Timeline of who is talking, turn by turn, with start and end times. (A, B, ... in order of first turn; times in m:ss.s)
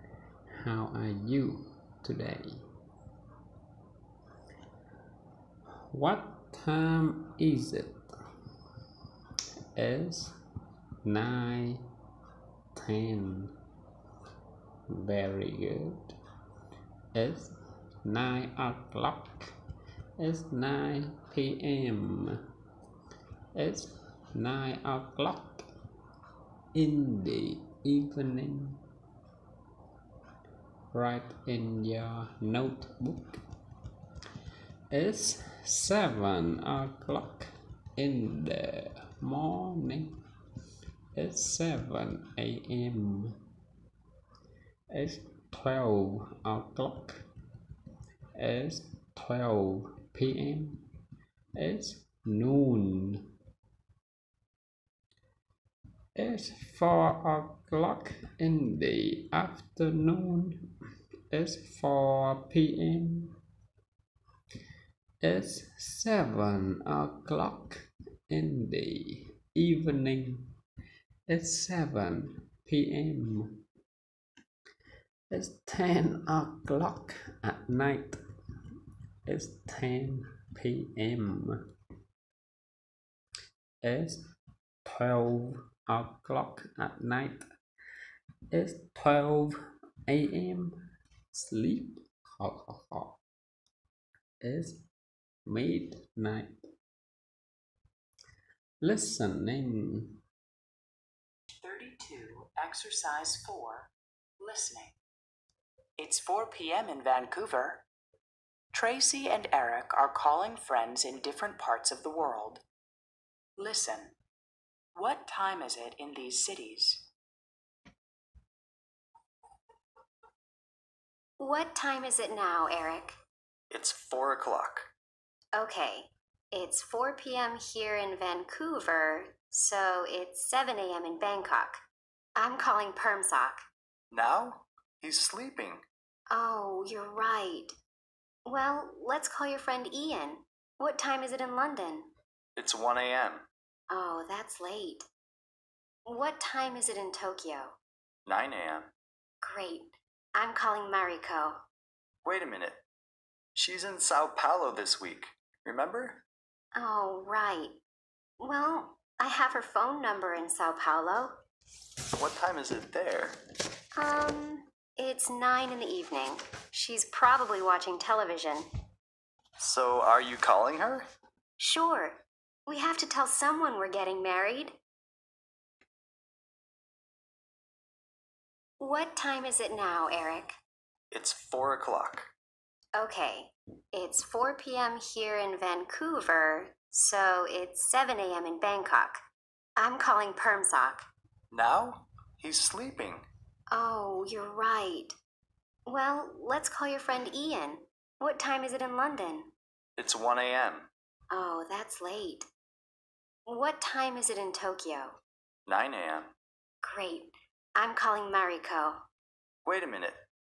0:00.6-0:02.6 A
0:05.9-0:08.1 A
0:09.8-0:10.4 A
0:11.0-0:11.8 A
0:12.7-0:13.5 A
0:14.9-0:16.2 A
0:17.1-0:19.5 A
0:20.2-0:22.4 A
0:23.6-0:25.7 A
0:26.7-0:28.8 A
0:30.9-0:33.4 A
0:34.9-0:40.2 A
0:41.1-0:43.4 A
0:44.9-0:47.2 A
0:48.4-0:50.8 A
0:51.6-0:53.2 A
0:56.2-1:00.7 A
1:01.3-1:03.3 A
1:05.2-1:10.5 A
1:11.3-1:13.6 A
1:15.3-1:18.2 A
1:19.2-1:21.6 A
1:23.8-1:24.3 A
1:24.8-1:27.4 A
1:28.5-1:30.8 A
1:31.3-1:33.2 A
1:34.4-1:34.8 A
1:35.4-1:36.6 A
1:38.8-1:40.2 A
1:41.6-1:45.0 B
1:46.0-1:47.8 B
1:48.7-1:52.6 B
1:53.6-1:54.1 B
1:54.9-1:57.1 B
2:01.4-2:03.2 C
2:03.7-2:04.9 D
2:05.5-2:11.8 C
2:12.4-2:13.6 C
2:14.1-2:15.8 D
2:16.3-2:17.7 C
2:18.4-2:22.1 C
2:22.6-2:23.4 D
2:23.9-2:25.1 C
2:26.0-2:27.7 C
2:28.2-2:28.9 D
2:29.4-2:31.6 C
2:32.2-2:32.8 D
2:33.5-2:36.2 D
2:36.7-2:37.8 C
2:38.4-2:41.3 C
2:42.2-2:43.4 D
2:44.0-2:48.6 C
2:49.6-2:51.1 D
2:51.6-2:54.8 C
2:58.8-3:00.6 C
3:01.1-3:02.3 D
3:03.0-3:09.2 C
3:09.8-3:11.1 C
3:11.5-3:13.2 D
3:13.7-3:15.1 C
3:15.8-3:19.5 C
3:20.0-3:20.9 D
3:21.3-3:22.5 C
3:23.4-3:25.2 C
3:25.7-3:26.3 D
3:26.8-3:29.0 C
3:29.6-3:30.2 D